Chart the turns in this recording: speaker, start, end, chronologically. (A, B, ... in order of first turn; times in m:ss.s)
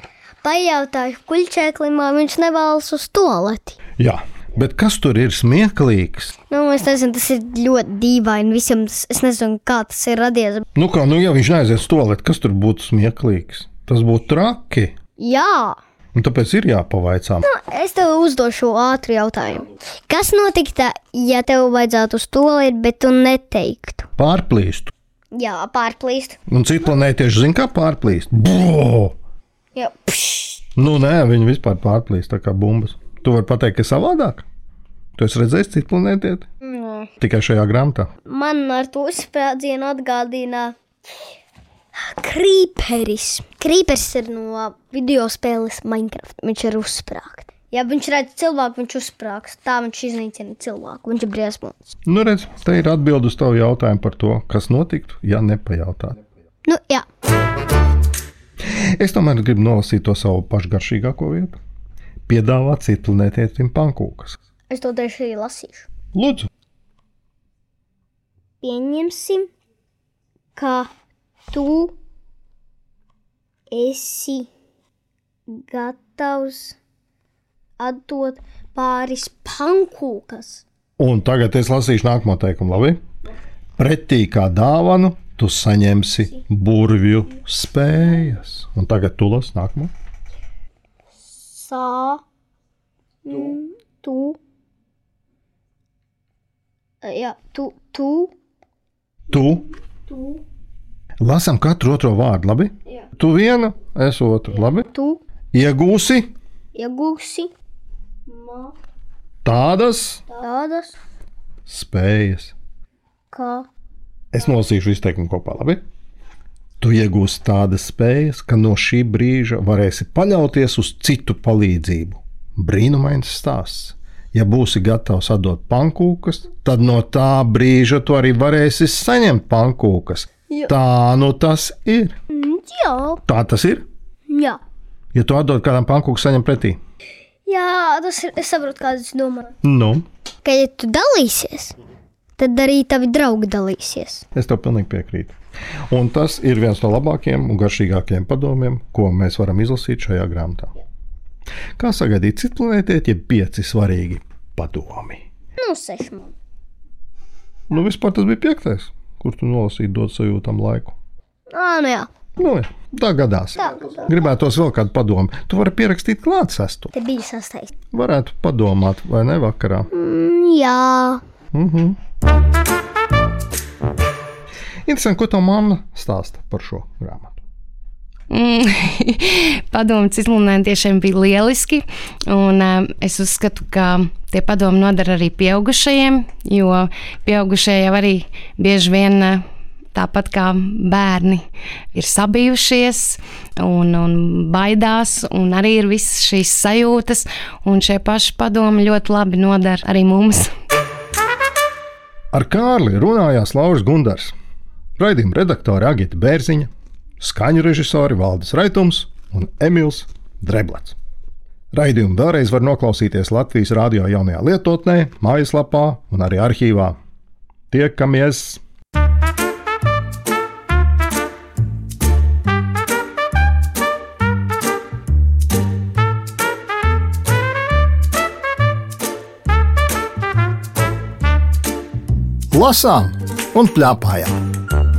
0:00.4-0:03.8 A
0:04.0-0:06.4 B
0:06.5-0:10.7 A
0:10.8-0:14.9 B
0:15.2-0:15.8 A
0:16.2-0:17.5 B
0:17.4-0:24.1 A
0:24.2-0:24.9 B
0:25.3-0:26.4 A
0:26.5-0:29.2 B
0:29.8-0:30.7 A
0:30.8-0:34.5 B
0:35.2-0:36.5 B
0:36.6-0:37.1 A
0:37.2-0:38.1 B
0:38.3-0:40.8 A
0:42.0-0:51.9 A
0:52.1-0:56.2 B
0:56.7-0:57.1 A
0:58.7-1:01.6 B
1:02.3-1:04.4 B
1:04.7-1:05.9 A
1:06.1-1:06.5 B
1:08.6-1:09.5 A
1:10.6-1:10.9 A
1:11.5-1:12.0 A
1:13.7-1:14.5 A
1:15.5-1:16.8 A
1:17.8-1:20.7 A
1:21.0-1:23.0 B
1:23.8-1:29.9 B
1:31.3-1:32.2 A
1:33.3-1:34.4 A
1:37.0-1:38.3 A
1:39.3-1:39.7 B
1:40.1-1:40.4 A
1:41.2-1:44.9 B
1:44.8-1:45.2 A
1:45.5-1:46.3 B
1:46.7-1:47.5 A
1:48.3-1:48.8 A
1:49.4-1:50.2 B
1:50.3-1:51.0 A
1:51.7-1:52.6 B
1:53.3-1:53.7 A
1:54.3-1:55.8 B
1:56.8-2:12.2 B
2:12.3-2:13.2 A
2:13.3-2:13.9 B
2:14.3-2:14.6 A
2:15.1-2:16.8 B
2:17.5-2:19.6 A
2:19.6-2:20.1 B
2:20.4-2:21.8 A
2:22.4-2:24.2 A
2:24.3-2:25.4 B
2:25.9-2:30.7 B
2:31.8-2:35.3 B
2:35.6-2:36.3 A
2:37.7-2:41.0 B
2:41.5-2:42.1 A
2:42.4-2:46.9 B
2:43.6-2:44.1 A
2:46.9-2:47.7 A
2:47.9-2:49.9 B
2:49.9-2:51.2 A
2:51.5-2:52.0 B
2:54.9-2:57.4 B
2:58.3-3:09.4 C
3:09.9-3:20.5 C
3:22.3-3:24.4 B
3:25.0-3:31.0 B
3:31.7-3:37.0 B
3:37.7-3:38.6 B
3:52.5-3:54.4 B